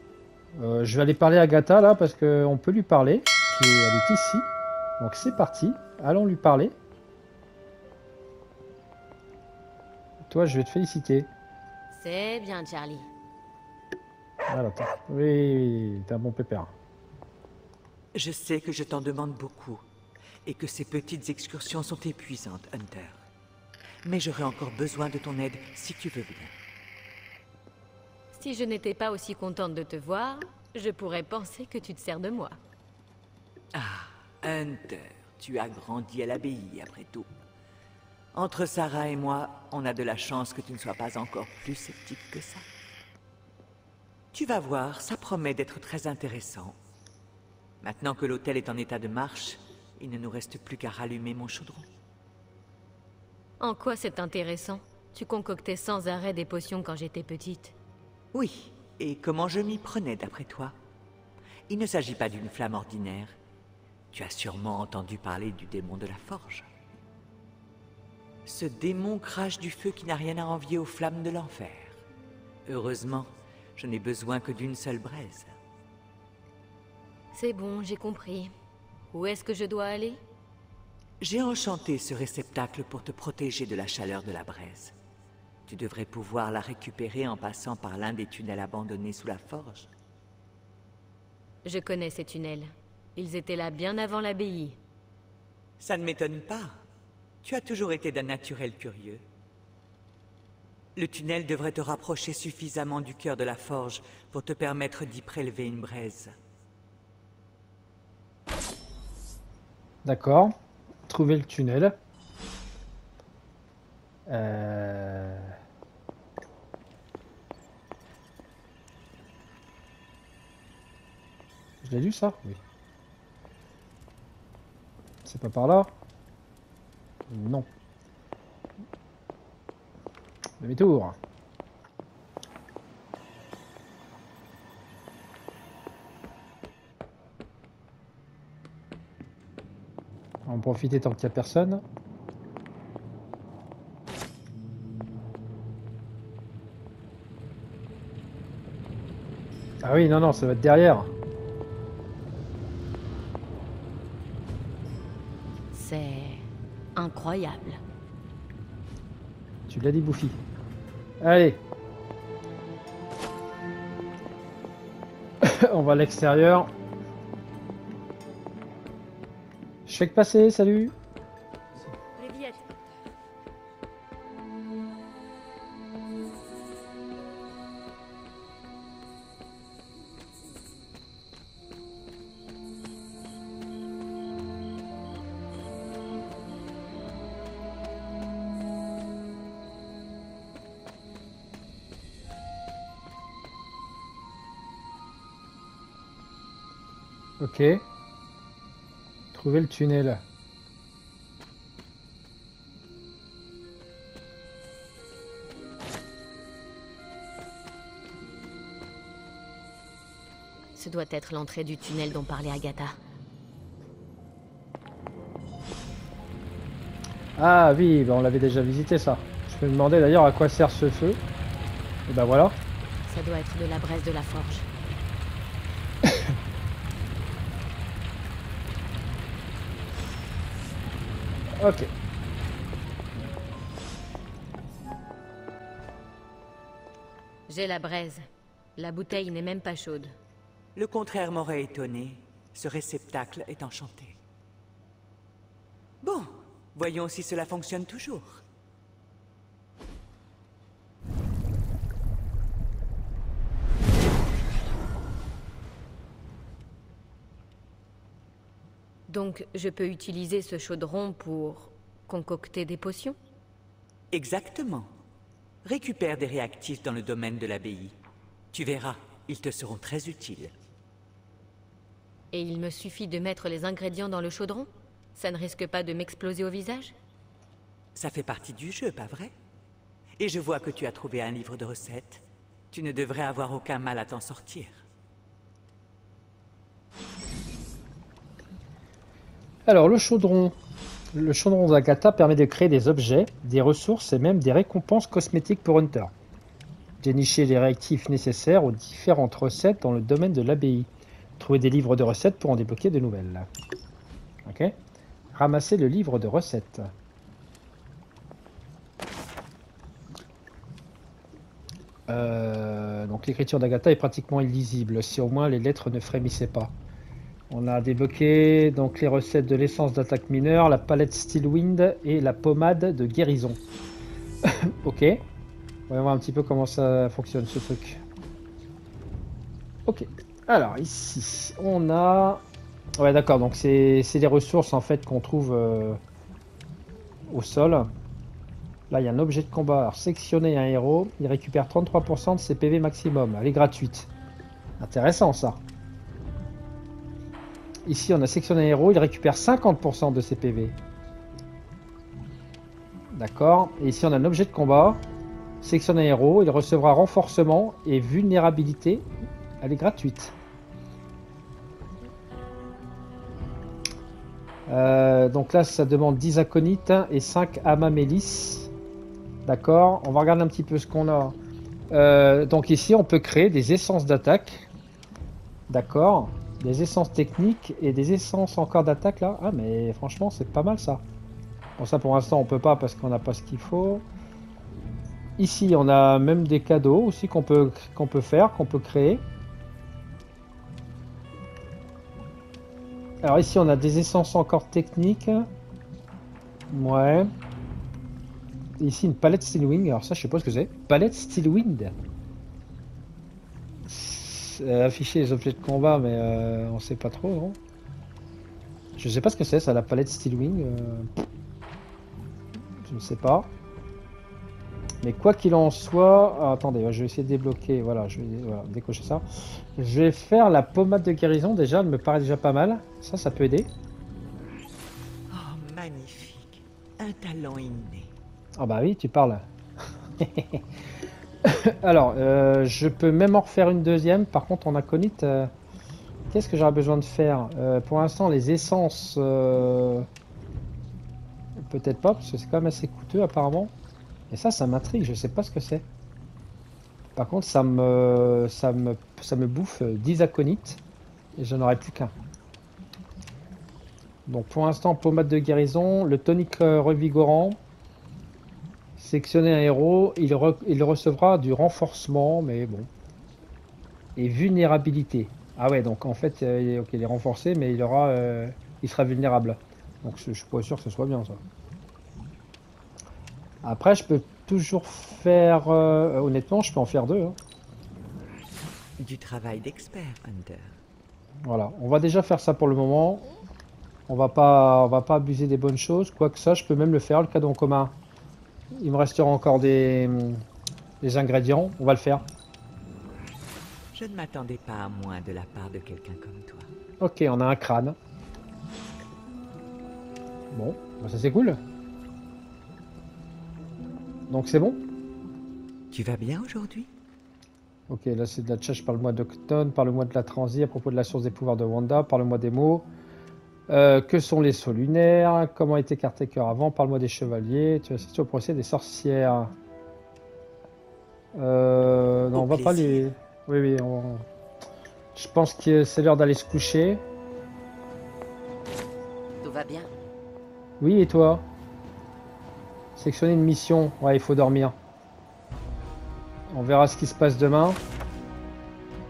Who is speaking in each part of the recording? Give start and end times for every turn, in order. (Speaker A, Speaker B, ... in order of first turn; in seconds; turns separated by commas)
Speaker A: 0.5-6.7, Speaker A: 10.3-11.3, Speaker B: 11.9-13.1, Speaker A: 14.5-16.7, Speaker C: 18.1-19.8, Speaker C: 20.4-23.2, Speaker C: 24.0-26.5, Speaker B: 28.4-32.5, Speaker C: 33.7-37.3, Speaker C: 38.3-42.6, Speaker C: 44.3-46.8, Speaker C: 47.8-51.9, Speaker B: 53.6-57.7, Speaker C: 58.3-60.7, Speaker C: 61.7-63.3, Speaker C: 64.1-66.7, Speaker C: 68.5-72.0, Speaker C: 72.7-75.5, Speaker B: 77.3-78.5, Speaker B: 79.1-80.2, Speaker C: 81.2-84.9, Speaker C: 85.7-89.9, Speaker B: 91.6-94.8, Speaker C: 95.8-96.7, Speaker C: 97.4-99.2, Speaker C: 101.0-106.3, Speaker A: 110.0-110.5, Speaker A: 111.1-112.0, Speaker A: 114.3-115.5, Speaker A: 121.8-122.6, Speaker A: 125.2-125.9, Speaker A: 127.3-127.7, Speaker A: 130.6-131.2, Speaker A: 140.4-141.8, Speaker A: 149.8-151.1, Speaker B: 155.7-156.4, Speaker B: 156.9-157.8, Speaker A: 159.7-160.4, Speaker A: 161.2-161.6, Speaker A: 165.4-166.7, Speaker A: 169.9-170.9, Speaker B: 172.2-172.6, Speaker A: 197.4-197.8, Speaker A: 199.3-200.2, Speaker B: 210.8-212.9, Speaker A: 217.4-221.2, Speaker A: 222.1-222.6, Speaker B: 223.1-224.7, Speaker A: 231.6-231.9, Speaker B: 237.5-238.2, Speaker B: 238.8-240.1, Speaker C: 240.7-244.2, Speaker C: 246.0-248.4, Speaker B: 259.1-263.2, Speaker C: 264.1-264.9, Speaker C: 265.6-267.9, Speaker C: 268.5-270.5, Speaker B: 272.3-276.9, Speaker C: 277.9-279.3, Speaker C: 280.2-284.8, Speaker A: 289.6-290.6, Speaker A: 291.1-296.1, Speaker A: 297.0-303.5, Speaker A: 304.4-304.8, Speaker A: 305.3-306.9, Speaker A: 312.1-316.7, Speaker A: 317.5-323.6, Speaker A: 324.4-325.2, Speaker A: 325.9-328.0, Speaker A: 329.9-332.4, Speaker A: 333.0-336.0, Speaker A: 337.3-337.9, Speaker A: 338.9-344.1, Speaker A: 344.8-345.6, Speaker A: 347.9-350.8, Speaker A: 353.1-355.0, Speaker A: 355.6-359.1, Speaker A: 359.6-360.3, Speaker A: 364.7-368.7, Speaker A: 369.4-371.4, Speaker A: 371.9-374.7, Speaker A: 375.7-381.0, Speaker A: 381.8-384.0, Speaker A: 385.4-389.2, Speaker A: 393.2-395.5, Speaker A: 396.7-397.3, Speaker A: 398.8-401.9, Speaker A: 403.9-407.6, Speaker A: 409.0-411.1, Speaker A: 412.8-413.5, Speaker A: 415.0-419.2, Speaker A: 419.8-423.7, Speaker C: 425.3-428.1, Speaker A: 428.6-429.4, Speaker A: 430.2-430.6, Speaker A: 431.4-435.5, Speaker A: 436.3-440.1, Speaker A: 441.6-443.7, Speaker A: 444.3-445.9, Speaker A: 447.1-450.8, Speaker A: 451.4-452.1, Speaker A: 454.2-457.6, Speaker A: 459.0-462.9, Speaker A: 464.1-471.4, Speaker A: 473.6-477.4, Speaker C: 479.0-480.8, Speaker A: 481.4-483.2, Speaker A: 484.1-487.9, Speaker A: 488.8-490.4, Speaker A: 491.0-492.2, Speaker C: 493.9-496.7, Speaker A: 497.0-498.0, Speaker A: 500.5-501.6, Speaker A: 504.3-504.8, Speaker C: 505.9-506.9, Speaker A: 507.9-512.9, Speaker A: 513.7-519.5, Speaker A: 521.3-524.2, Speaker C: 522.3-523.0, Speaker A: 525.1-527.0, Speaker C: 529.4-529.9, Speaker A: 530.8-531.5, Speaker A: 533.0-534.8, Speaker A: 536.5-537.8